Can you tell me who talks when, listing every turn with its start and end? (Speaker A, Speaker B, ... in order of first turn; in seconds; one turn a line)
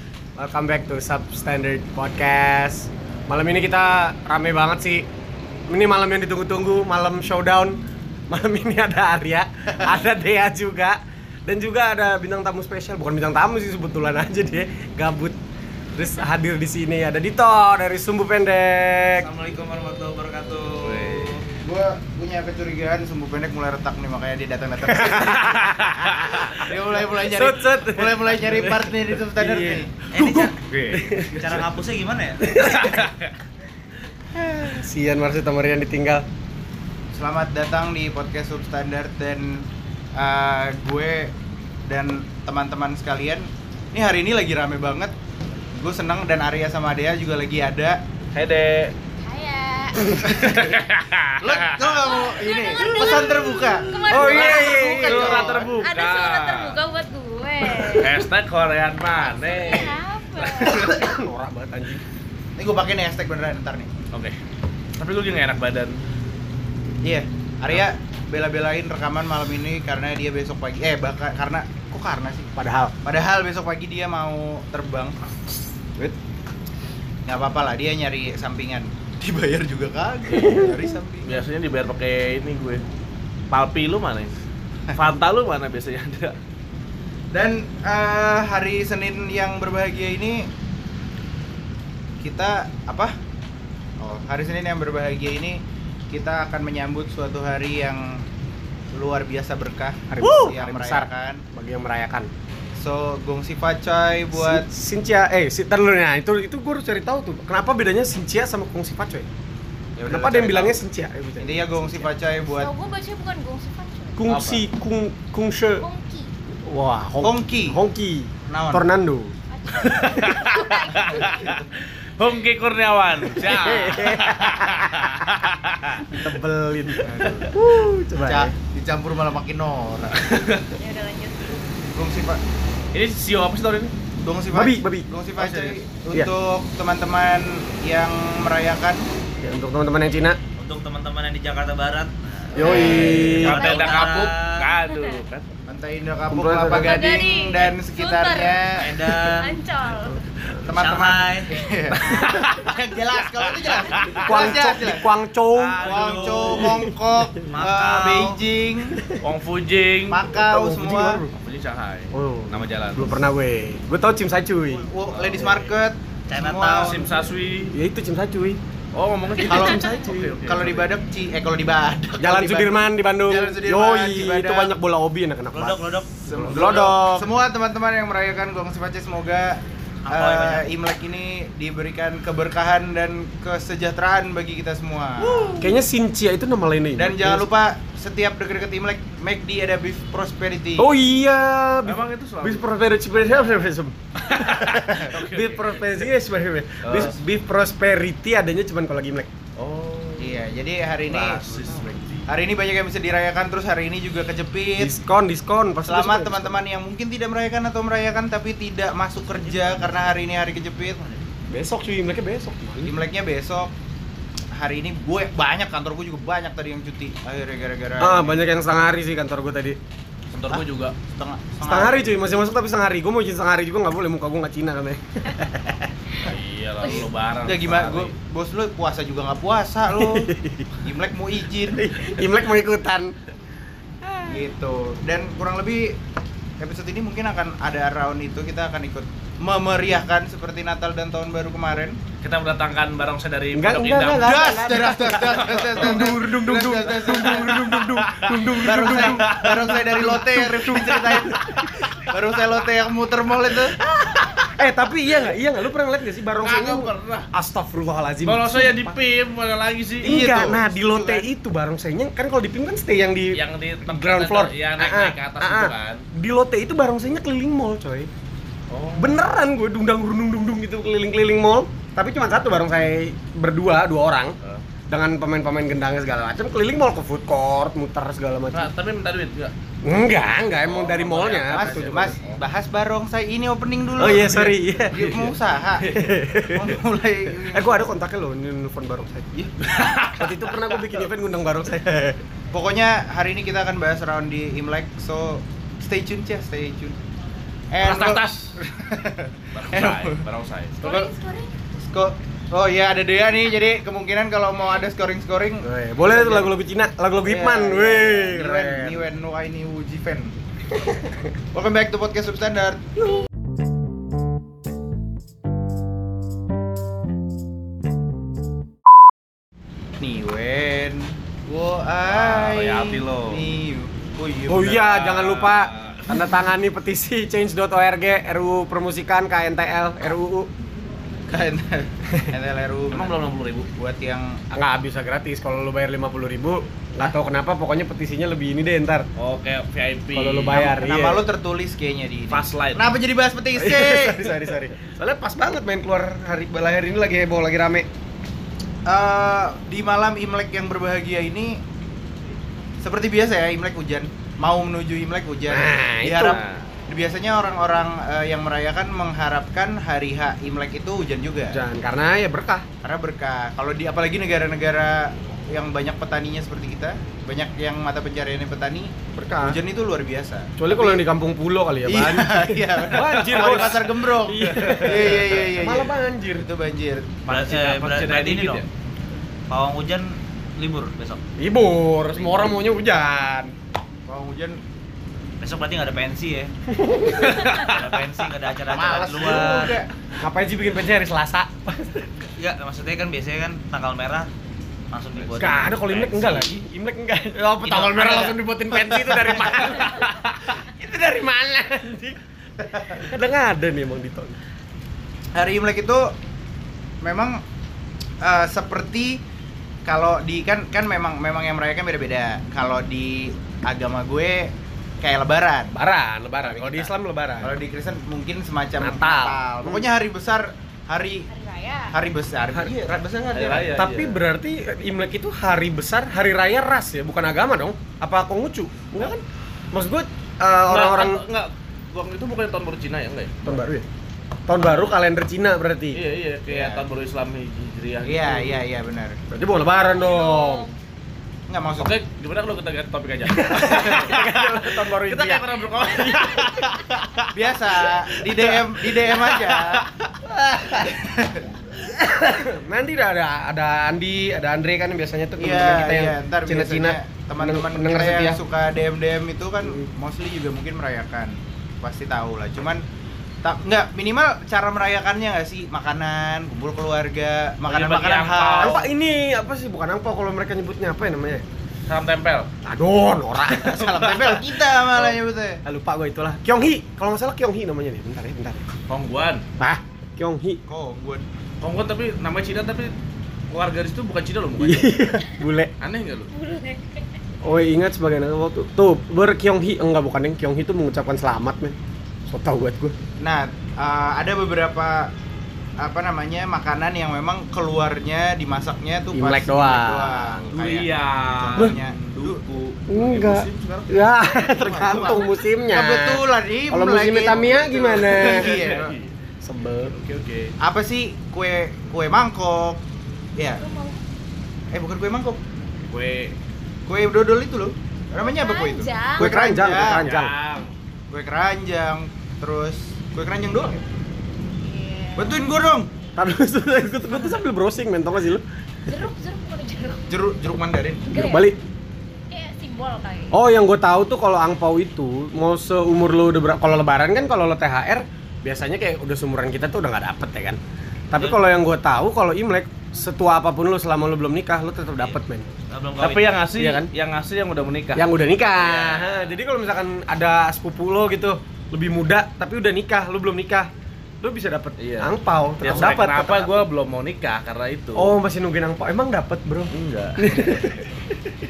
Speaker A: 0.3-5.1
Speaker A: 5.7-15.4
Speaker A: 15.9-19.3
Speaker B: 19.2-21.4
Speaker C: 20.8-21.4
Speaker D: 21.6-25.8
Speaker A: 24.8-31.7
Speaker C: 25.5-26.3
Speaker D: 26.3-29.9
Speaker B: 30.1-30.6
Speaker C: 30.7-31.0
Speaker B: 31.3-32.4
Speaker A: 32.4-33.1
Speaker C: 32.5-33.3
Speaker A: 34.3-36.3
Speaker D: 37.1-41.3
Speaker D: 41.9-45.1
Speaker D: 45.7-48.0
Speaker C: 48.3-48.9
Speaker E: 49.2-50.2
Speaker C: 50.1-52.1
Speaker D: 50.2-50.7
Speaker D: 51.4-55.7
Speaker E: 52.0-58.3
Speaker C: 54.0-56.8
Speaker A: 54.0-55.6
Speaker C: 57.8-60.0
Speaker E: 59.2-61.0
Speaker A: 60.4-62.0
Speaker D: 62.6-63.9
Speaker C: 65.0-66.0
Speaker D: 67.0-72.5
Speaker A: 72.5-72.9
Speaker D: 73.0-75.2
Speaker D: 77.3-81.3
Speaker A: 80.3-80.8
Speaker C: 81.2-82.8
Speaker C: 83.5-84.3
Speaker C: 84.9-86.3
Speaker D: 87.3-90.5
Speaker D: 92.2-93.2
Speaker D: 94.0-98.2
Speaker D: 98.9-101.4
Speaker A: 100.1-102.3
Speaker D: 102.8-104.7
Speaker A: 104.3-109.3
Speaker D: 110.0-110.8
Speaker A: 110.0-112.1
Speaker D: 111.4-112.7
Speaker E: 112.5-114.2
Speaker A: 114.2-115.9
Speaker C: 114.3-114.6
Speaker E: 115.8-116.3
Speaker A: 116.5-119.3
Speaker D: 117.2-117.8
Speaker D: 118.5-118.9
Speaker E: 119.5-121.6
Speaker C: 119.8-126.2
Speaker A: 123.4-125.5
Speaker A: 126.0-128.5
Speaker D: 127.0-127.5
Speaker D: 128.2-130.2
Speaker C: 130.2-130.7
Speaker E: 130.7-131.7
Speaker D: 131.9-132.4
Speaker C: 132.9-133.9
Speaker D: 134.2-139.1
Speaker A: 134.5-136.3
Speaker A: 139.4-140.4
Speaker B: 140.6-144.7
Speaker A: 142.5-143.7
Speaker D: 142.6-143.3
Speaker E: 142.7-144.3
Speaker C: 142.8-145.5
Speaker E: 144.9-145.2
Speaker D: 145.7-148.9
Speaker A: 146.3-147.1
Speaker E: 146.7-150.2
Speaker B: 148.8-149.5
Speaker D: 150.6-155.1
Speaker B: 150.7-151.6
Speaker C: 152.1-152.7
Speaker C: 153.7-154.6
Speaker A: 154.1-157.3
Speaker C: 155.5-156.8
Speaker D: 155.8-159.1
Speaker B: 155.9-156.6
Speaker B: 157.4-158.4
Speaker A: 159.0-159.2
Speaker C: 159.2-160.2
Speaker D: 160.1-161.2
Speaker A: 160.3-161.3
Speaker C: 161.3-163.2
Speaker A: 162.1-164.9
Speaker D: 164.8-167.1
Speaker C: 165.1-165.6
Speaker B: 166.3-167.1
Speaker C: 166.8-167.7
Speaker A: 167.7-168.6
Speaker C: 168.9-170.9
Speaker D: 169.4-169.9
Speaker A: 169.4-170.3
Speaker D: 170.4-174.7
Speaker A: 172.2-177.3
Speaker B: 175.5-176.8
Speaker D: 176.3-185.6
Speaker B: 180.0-180.7
Speaker C: 185.2-185.7
Speaker A: 185.6-187.5
Speaker D: 186.9-190.9
Speaker A: 190.8-199.3
Speaker C: 191.8-193.6
Speaker C: 194.2-196.1
Speaker C: 196.8-197.2
Speaker C: 199.6-200.4
Speaker D: 200.2-201.6
Speaker C: 201.0-202.3
Speaker D: 202.3-204.9
Speaker A: 204.8-206.6
Speaker D: 205.8-211.0
Speaker B: 209.3-210.2
Speaker B: 211.0-211.2
Speaker A: 211.5-212.9
Speaker D: 212.8-213.7
Speaker D: 214.5-218.4
Speaker A: 218.0-219.8
Speaker C: 220.3-220.9
Speaker D: 221.0-222.1
Speaker A: 221.6-225.9
Speaker C: 226.2-228.1
Speaker D: 227.4-230.3
Speaker A: 229.9-230.7
Speaker D: 230.8-231.8
Speaker A: 231.7-233.1
Speaker A: 234.0-234.4
Speaker D: 234.2-236.0
Speaker D: 236.6-242.0
Speaker C: 242.2-244.3
Speaker A: 243.5-251.9
Speaker D: 244.1-247.9
Speaker C: 245.1-246.1
Speaker C: 248.2-249.6
Speaker D: 248.6-253.8
Speaker A: 253.8-258.9
Speaker C: 256.4-257.2
Speaker C: 258.2-260.2
Speaker D: 260.0-261.2
Speaker A: 260.0-268.1
Speaker C: 263.3-266.0
Speaker C: 268.7-269.2
Speaker A: 268.9-274.4
Speaker A: 274.9-278.7
Speaker C: 278.5-279.5
Speaker A: 279.8-282.2
Speaker C: 280.6-282.4
Speaker D: 281.5-287.9
Speaker A: 284.0-285.1
Speaker C: 284.9-286.0
Speaker A: 285.8-286.8
Speaker A: 287.4-292.2
Speaker C: 289.6-290.8
Speaker D: 292.5-296.9
Speaker D: 297.7-300.2
Speaker C: 297.8-298.6
Speaker C: 299.5-300.8
Speaker D: 300.8-301.1
Speaker E: 300.8-301.7
Speaker D: 301.8-306.5
Speaker A: 305.6-309.1
Speaker D: 307.2-310.3
Speaker A: 310.7-311.2
Speaker D: 311.5-312.8
Speaker D: 320.0-324.7
Speaker C: 322.0-323.4
Speaker A: 324.5-330.5
Speaker C: 324.6-326.3
Speaker D: 331.3-333.2
Speaker C: 332.9-333.7
Speaker D: 333.7-334.4
Speaker A: 334.5-339.1
Speaker C: 339.1-340.6
Speaker A: 340.1-341.2
Speaker D: 340.5-344.2
Speaker C: 342.3-342.8
Speaker A: 343.5-347.9
Speaker D: 348.9-351.6
Speaker D: 352.8-361.6
Speaker A: 355.5-356.4
Speaker C: 356.2-356.6
Speaker A: 361.5-362.6
Speaker D: 362.8-368.9
Speaker A: 369.1-369.6
Speaker D: 369.4-371.0
Speaker A: 370.6-376.5
Speaker D: 371.9-377.1
Speaker C: 373.0-373.8
Speaker C: 374.5-375.3
Speaker C: 377.3-378.7
Speaker B: 377.3-378.6
Speaker B: 379.5-381.2
Speaker A: 381.4-383.5
Speaker C: 382.2-382.5
Speaker D: 384.1-384.6
Speaker B: 385.4-386.5
Speaker A: 386.7-387.5
Speaker C: 387.2-387.8
Speaker B: 387.4-389.8
Speaker D: 388.7-389.9
Speaker A: 389.2-389.6
Speaker A: 390.2-392.2
Speaker B: 392.4-394.3
Speaker B: 394.9-396.6
Speaker C: 395.2-395.6
Speaker A: 395.4-402.2
Speaker B: 397.6-398.4
Speaker C: 399.4-399.7
Speaker A: 402.8-404.4
Speaker D: 405.3-406.1
Speaker D: 407.0-407.4
Speaker D: 408.2-409.2
Speaker D: 409.8-415.7
Speaker A: 415.7-417.6
Speaker C: 416.4-416.9
Speaker D: 417.4-421.3
Speaker A: 418.8-419.9
Speaker E: 421.3-421.9
Speaker D: 421.9-423.8
Speaker A: 422.5-422.8
Speaker C: 423.3-424.2
Speaker A: 423.7-431.2
Speaker C: 430.7-433.6
Speaker A: 433.4-433.9
Speaker A: 434.5-436.0
Speaker C: 434.6-435.0
Speaker C: 435.9-438.6
Speaker D: 436.5-436.8
Speaker D: 438.0-439.2
Speaker A: 439.3-440.7
Speaker E: 439.9-440.7
Speaker D: 441.5-441.9
Speaker C: 441.8-447.3
Speaker A: 443.3-446.5
Speaker D: 447.3-449.9
Speaker C: 449.0-449.9
Speaker A: 450.2-451.0
Speaker D: 450.8-451.5
Speaker A: 451.8-458.4
Speaker D: 455.4-462.8
Speaker D: 463.4-468.8
Speaker C: 467.6-468.8
Speaker A: 468.6-471.4
Speaker C: 471.9-472.5
Speaker A: 472.6-478.6
Speaker D: 473.5-475.6
Speaker C: 478.9-479.4
Speaker A: 479.6-480.6
Speaker D: 480.7-481.2
Speaker C: 481.6-482.9
Speaker C: 483.5-485.2
Speaker A: 484.6-485.7
Speaker C: 485.8-486.3
Speaker E: 486.3-487.0
Speaker A: 487.4-491.8
Speaker A: 492.3-492.9
Speaker D: 493.2-495.1
Speaker D: 495.8-502.4
Speaker A: 499.1-500.3
Speaker C: 500.4-505.2
Speaker A: 502.9-508.8
Speaker D: 504.5-508.9
Speaker C: 507.3-509.1
Speaker A: 509.4-509.9
Speaker C: 509.9-510.5
Speaker D: 510.6-512.8
Speaker D: 513.4-513.6
Speaker E: 513.6-514.0
Speaker D: 514.7-515.4
Speaker C: 515.9-516.4
Speaker D: 516.9-520.0
Speaker E: 518.2-519.3
Speaker A: 519.1-520.4
Speaker C: 519.8-520.7
Speaker D: 521.1-523.8
Speaker E: 524.6-525.4
Speaker D: 525.2-525.9
Speaker A: 526.1-528.4
Speaker E: 528.9-530.1
Speaker D: 530.1-531.1
Speaker E: 531.1-531.5
Speaker A: 531.1-531.6
Speaker E: 532.3-533.4
Speaker A: 533.3-540.6
Speaker A: 541.1-545.5
Speaker B: 545.0-546.3
Speaker C: 546.0-549.4
Speaker A: 546.5-546.9
Speaker A: 547.9-553.7
Speaker A: 554.2-556.6
Speaker C: 554.8-558.1
Speaker A: 557.9-561.4
Speaker C: 559.7-560.6